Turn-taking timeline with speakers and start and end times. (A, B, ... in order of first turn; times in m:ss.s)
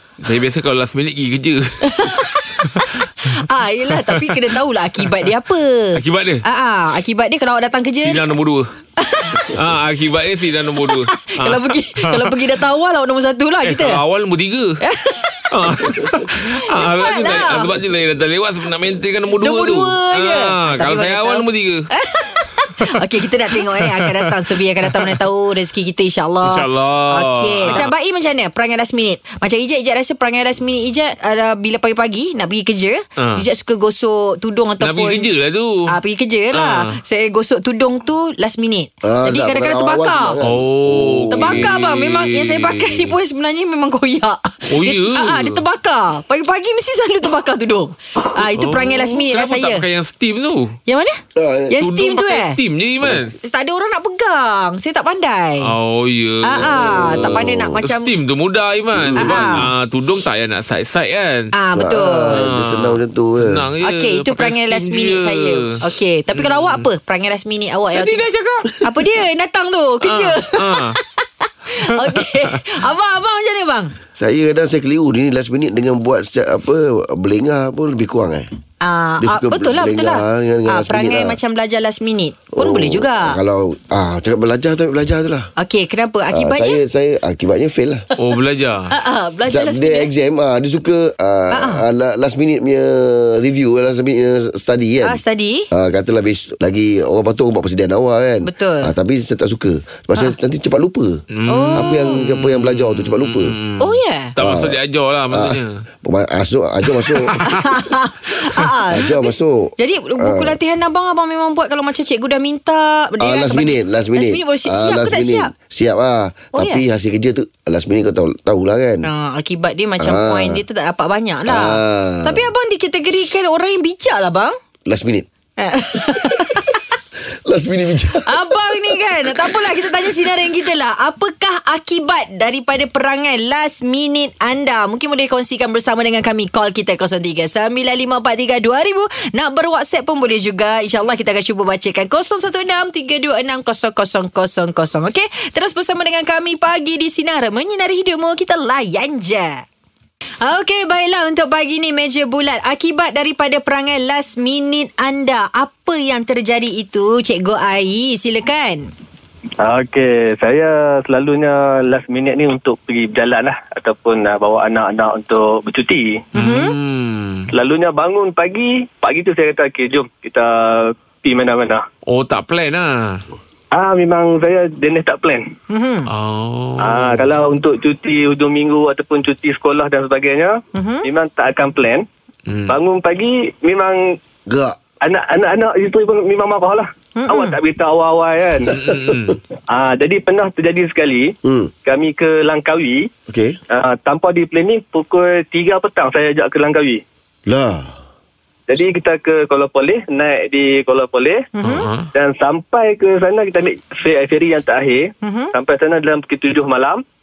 0:00.2-0:02.1 A
0:01.8-0:08.2 B
0:06.0-0:06.4 A
0:08.0-0:08.6 A
0:09.0-0:09.5 B
0:09.3-0:12.3 A
0:10.8-0:14.0 B
0:13.6-0:14.7 A
0:14.8-0:15.5 B
0:15.5-0:21.8 A
0:16.4-0:17.7 B
0:19.4-0:35.3 B
0:26.4-0:27.9 A
0:33.2-0:33.4 A
0:34.8-0:35.7 A
0:35.9-0:40.4 B
0:36.5-0:37.0 A
0:39.0-0:41.7 C
0:40.4-0:43.2 A
0:41.3-0:49.9 B
0:44.7-0:45.6 A
0:48.6-0:50.8 A
0:50.9-0:51.2 B
0:51.4-0:51.8 C
0:51.7-0:52.6 B
0:51.8-0:53.3 A
0:53.4-0:55.7 B
0:55.6-1:01.5 A
0:56.4-0:58.1 B
0:56.6-0:57.7 C
0:59.0-0:59.6 C
0:59.2-0:59.7 B
1:01.5-1:02.4 B
1:01.8-1:03.7 C
1:02.3-1:05.7 A
1:03.8-1:08.2 B
1:06.3-1:06.8 A
1:07.9-1:08.7 A
1:08.8-1:13.9 B
1:10.0-1:11.0 A
1:11.8-1:12.6 A
1:14.2-1:18.5 C
1:18.8-1:23.4 B
1:19.2-1:21.4 C
1:22.5-1:25.5 C
1:25.6-1:26.8 B
1:26.3-1:28.0 C
1:28.2-1:28.8 A
1:28.9-1:30.1 B
1:29.5-1:35.2 C
1:31.5-1:31.8 B
1:35.0-1:35.7 B
1:35.7-1:41.2 C
1:38.4-1:38.9 B
1:41.3-1:45.7 A
1:41.5-1:42.2 B
1:41.7-1:43.6 C
1:43.8-1:44.4 B
1:44.4-1:44.8 C
1:45.3-1:47.4 C
1:47.4-1:49.3 B
1:48.9-1:50.6 C
1:49.8-1:55.5 B
1:53.2-1:59.0 C
1:56.5-1:56.8 B
1:59.0-2:04.6 B
2:00.0-2:00.6 C
2:01.4-2:02.4 C
2:04.9-2:05.3 C
2:05.6-2:06.8 B
2:07.3-2:08.5 C
2:08.2-2:29.6 B
2:30.4-2:38.9 B
2:39.6-2:46.1 D
2:46.4-2:46.8 B
2:46.4-2:47.4 A
2:47.5-2:51.8 D
2:52.1-2:53.2 A
2:53.7-2:55.4 D
2:55.7-2:56.1 B
2:56.1-2:57.4 A
2:56.8-3:02.0 D
3:00.7-3:01.1 B
3:02.5-3:02.8 A
3:02.7-3:04.0 D
3:04.5-3:04.8 C
3:05.0-3:08.7 D
3:07.2-3:07.6 B
3:08.7-3:09.4 A
3:08.8-3:09.4 C
3:09.7-3:13.1 D
3:11.4-3:11.7 C
3:13.3-3:13.6 C
3:13.7-3:17.0 D
3:17.5-3:18.0 C
3:18.7-3:21.4 D
3:21.6-3:21.9 B
3:21.6-3:22.1 A
3:22.1-3:27.0 D
3:25.2-3:25.5 B